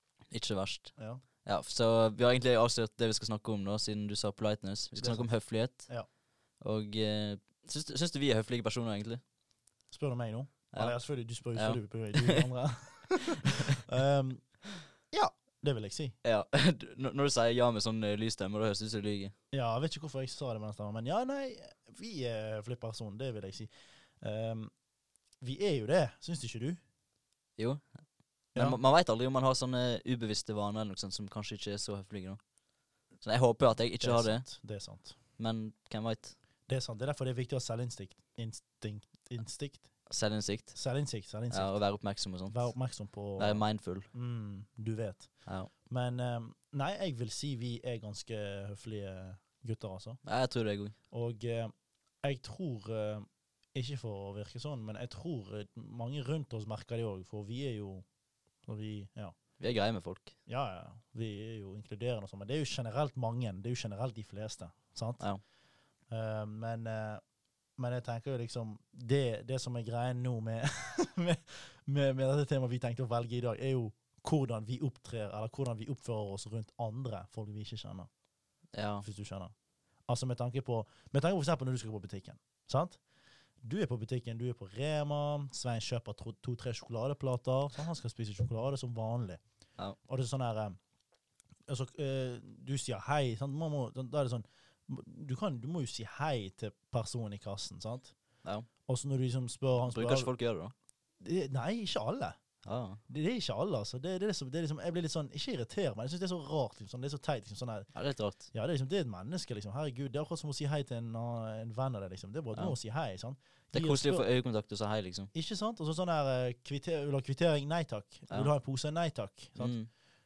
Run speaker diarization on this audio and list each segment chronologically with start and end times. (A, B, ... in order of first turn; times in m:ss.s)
0:00.3-0:00.9 A
0:01.0-0:01.2 B
0:01.4-0:05.9 A
0:05.0-0:06.1 B
0:06.6-0:09.2 A
0:09.9-0:14.4 B
0:11.6-0:12.5 A
0:13.2-0:13.8 A
0:15.1-0:16.2 B
0:16.2-0:19.3 A
0:19.5-0:24.7 B
0:25.4-0:26.8 B
0:27.6-0:27.8 A
0:28.6-0:32.4 A
0:33.2-0:34.4 A
0:34.0-0:35.2 B
0:35.4-0:36.4 A
0:36.7-0:39.9 B
0:40.1-0:40.8 A
0:40.8-0:41.8 B
0:41.5-0:42.7 A
0:42.5-0:50.2 B
0:43.4-0:44.1 A
0:45.5-0:45.7 A
0:50.2-0:51.0 A
0:51.1-0:58.0 B
0:58.6-0:59.4 B
0:59.6-1:00.4 A
1:00.5-1:05.2 B
1:06.1-1:07.2 B
1:07.8-1:18.1 B
1:18.7-1:19.1 A
1:19.0-1:19.5 B
1:20.1-1:23.0 B
1:23.6-1:29.4 B
1:30.0-1:30.8 B
1:31.7-1:38.1 B
1:38.9-1:40.3 B
1:39.9-1:40.7 A
1:41.2-1:42.4 B
1:42.6-1:43.0 A
1:43.1-1:47.9 B
1:47.9-1:48.5 A
1:48.5-1:54.2 B
1:53.7-1:55.3 A
1:55.3-1:59.8 B
1:59.6-1:59.9 A